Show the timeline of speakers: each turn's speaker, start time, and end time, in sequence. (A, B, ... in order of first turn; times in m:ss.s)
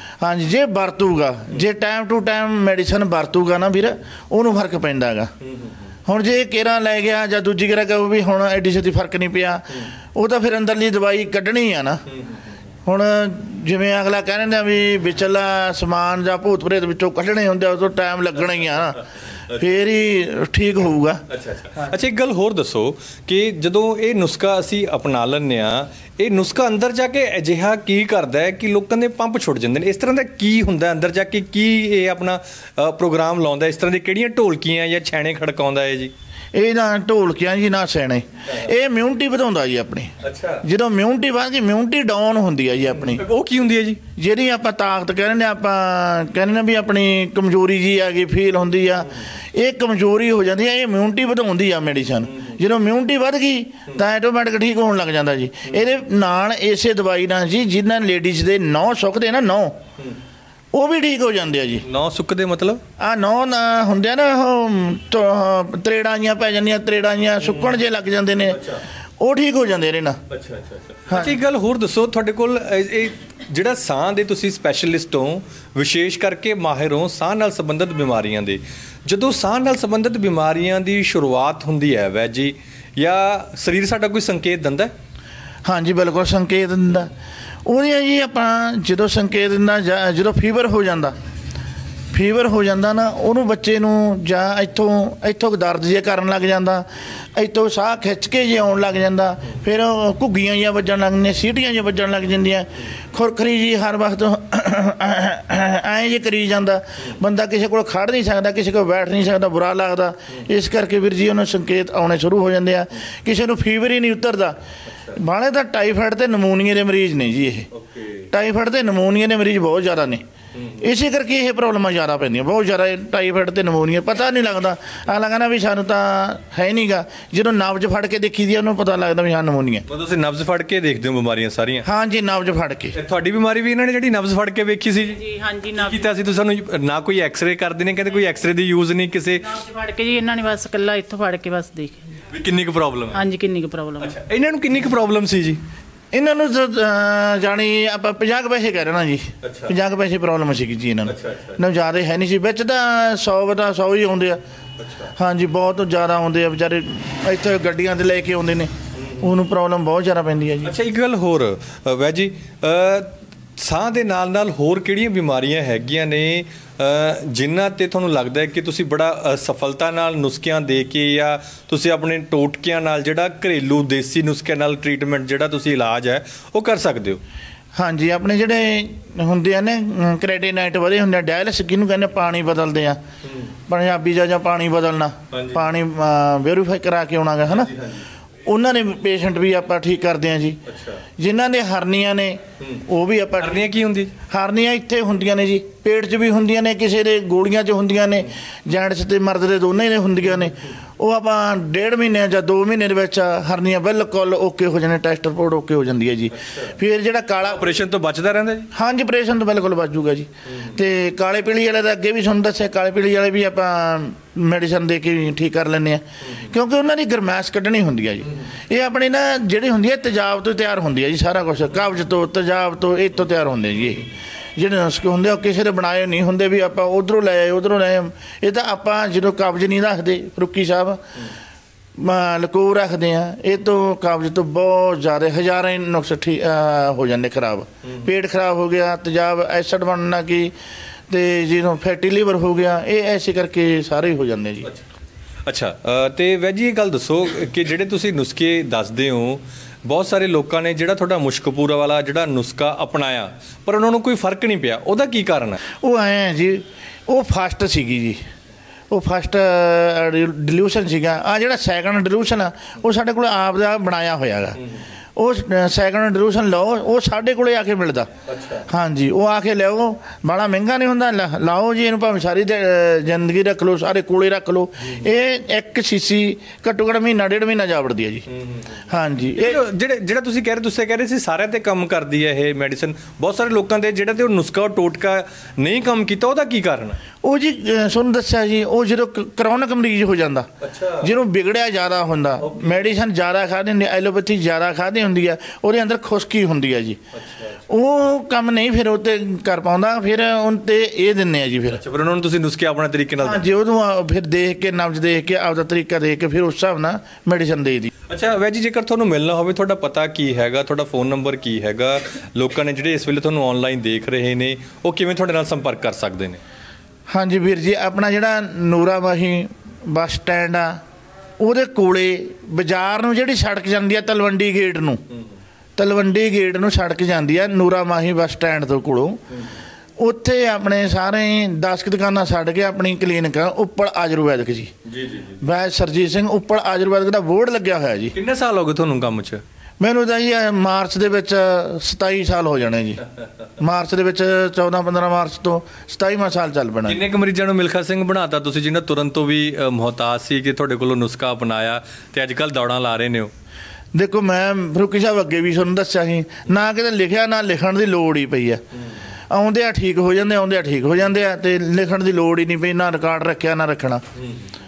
0:00.2-0:05.3 A
0:05.4-0:05.9 B
0:06.1-0:12.0 A
0:12.1-0:12.6 B
0:12.8-0:19.0 A
0:19.0-0:19.6 B
0:19.5-0:21.2 A
0:21.3-0:36.1 B
0:36.5-0:43.2 A
0:40.2-0:40.6 B
0:42.9-0:44.0 B
0:44.2-0:59.8 A
1:00.7-1:01.8 A
1:01.8-1:02.8 B
1:03.0-1:08.6 A
1:08.4-1:08.8 B
1:09.2-1:10.2 A
1:10.3-1:24.9 B
1:11.1-1:11.4 A
1:25.7-1:27.1 A
1:27.6-1:31.2 A
1:32.1-1:54.6 A
1:54.9-1:55.2 B
1:55.2-1:57.7 A
1:57.7-1:58.3 B
1:58.3-2:00.2 A
2:00.6-2:00.8 B
2:00.8-2:09.9 A
2:09.9-2:11.9 B
2:11.8-2:13.0 A
2:12.9-2:15.2 B
2:15.1-2:16.1 C
2:15.7-2:19.4 B
2:19.4-2:22.0 C
2:22.3-2:23.2 B
2:23.1-2:24.2 C
2:24.0-2:25.6 B
2:26.1-2:34.4 A
2:29.4-2:29.8 B
2:31.0-2:31.6 B
2:34.8-2:35.1 B
2:35.2-2:40.8 A
2:39.0-2:39.3 B
2:40.6-2:57.2 B
2:57.8-3:03.0 A
3:03.2-3:03.5 B
3:03.7-3:07.7 A
3:05.3-3:05.7 B
3:07.5-3:08.1 B
3:08.5-3:10.6 A
3:10.7-3:11.0 B
3:11.2-3:13.7 A
3:13.4-3:14.1 B
3:14.3-3:27.7 A
3:26.3-3:26.8 B
3:27.4-3:28.7 B
3:28.7-3:51.0 A
3:30.5-3:30.8 B
3:36.2-3:36.5 B
3:52.0-4:00.5 A
4:01.1-4:04.7 A
4:05.5-4:15.6 B
4:15.8-4:18.2 A
4:18.9-4:24.6 A
4:25.2-4:28.1 A
4:28.3-4:28.7 B
4:28.7-4:38.3 A
4:38.3-4:38.8 B
4:38.9-4:39.6 A
4:39.4-4:47.0 B
4:47.2-4:50.5 A
4:50.6-4:51.1 B
4:51.0-4:57.0 A
4:52.4-4:52.9 B
4:57.1-4:57.6 B
4:57.7-5:01.8 A
5:01.7-5:03.5 B
5:03.2-5:07.9 A
5:08.1-5:16.4 B
5:17.1-5:20.8 A
5:21.4-5:25.0 A
5:25.8-5:29.2 A
5:29.3-5:29.6 B
5:30.0-5:34.7 A
5:34.8-5:35.4 B
5:35.4-5:38.1 A
5:38.1-5:39.4 B
5:39.8-5:43.0 A
5:43.6-5:47.0 A
5:46.9-5:53.3 B
5:54.0-5:58.6 A
5:59.3-6:04.0 A
6:04.2-6:04.5 B